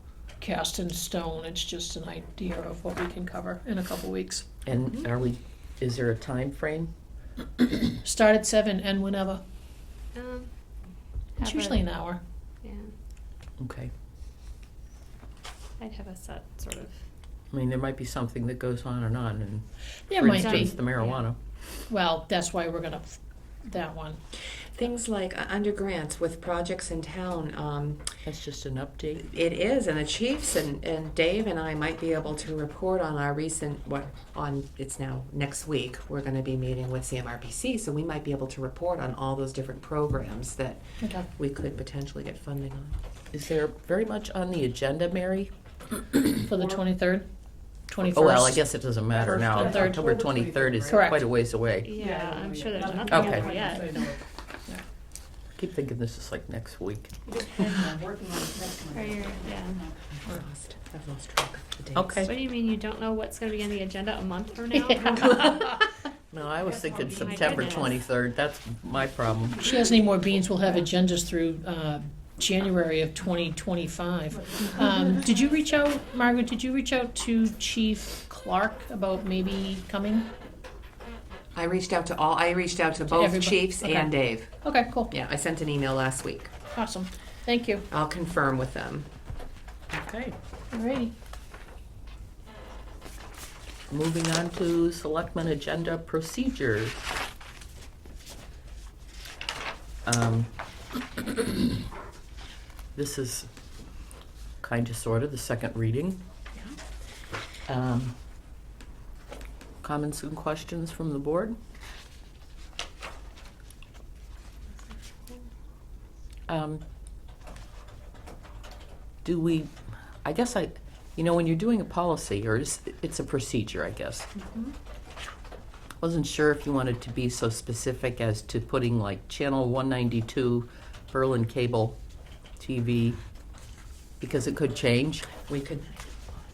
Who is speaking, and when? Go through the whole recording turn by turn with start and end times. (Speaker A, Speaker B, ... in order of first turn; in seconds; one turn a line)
Speaker A: 0.4-4.5
Speaker B: 4.7-6.9
Speaker A: 7.9-9.4
Speaker C: 10.1-10.5
Speaker C: 11.4-11.8
Speaker A: 11.4-12.2
Speaker C: 12.6-12.9
Speaker B: 13.6-13.9
Speaker C: 15.8-17.1
Speaker B: 17.5-21.4
Speaker A: 20.1-20.8
Speaker C: 20.3-21.2
Speaker A: 21.9-24.2
Speaker D: 24.8-28.2
Speaker B: 28.2-29.3
Speaker D: 29.2-43.0
Speaker A: 41.0-41.3
Speaker B: 43.3-45.5
Speaker A: 46.4-47.3
Speaker A: 47.9-48.6
Speaker B: 48.0-51.9
Speaker E: 49.2-50.9
Speaker A: 49.6-50.1
Speaker A: 50.9-51.2
Speaker C: 51.8-54.2
Speaker E: 52.0-54.2
Speaker B: 53.1-53.5
Speaker B: 55.6-57.1
Speaker E: 57.4-60.0
Speaker C: 58.9-59.8
Speaker D: 60.2-62.3
Speaker B: 62.0-62.3
Speaker C: 62.3-65.8
Speaker A: 64.8-65.5
Speaker B: 66.3-69.8
Speaker E: 66.6-67.9
Speaker C: 67.1-68.0
Speaker A: 69.6-80.3
Speaker D: 81.5-84.5
Speaker A: 83.1-85.1
Speaker D: 85.1-86.5
Speaker A: 86.7-87.9
Speaker D: 87.9-89.1
Speaker B: 89.9-90.3
Speaker A: 90.7-91.1
Speaker B: 93.9-97.1
Speaker B: 100.0-100.5
Speaker B: 103.0-103.5
Speaker B: 104.6-106.2
Speaker B: 107.7-108.2
Speaker B: 109.8-111.6
Speaker C: 114.8-115.5
Speaker B: 116.5-116.8
Speaker B: 119.2-124.3
Speaker D: 124.4-124.7
Speaker B: 126.0-132.0
Speaker B: 132.6-133.2
Speaker B: 134.2-135.3
Speaker D: 135.4-136.4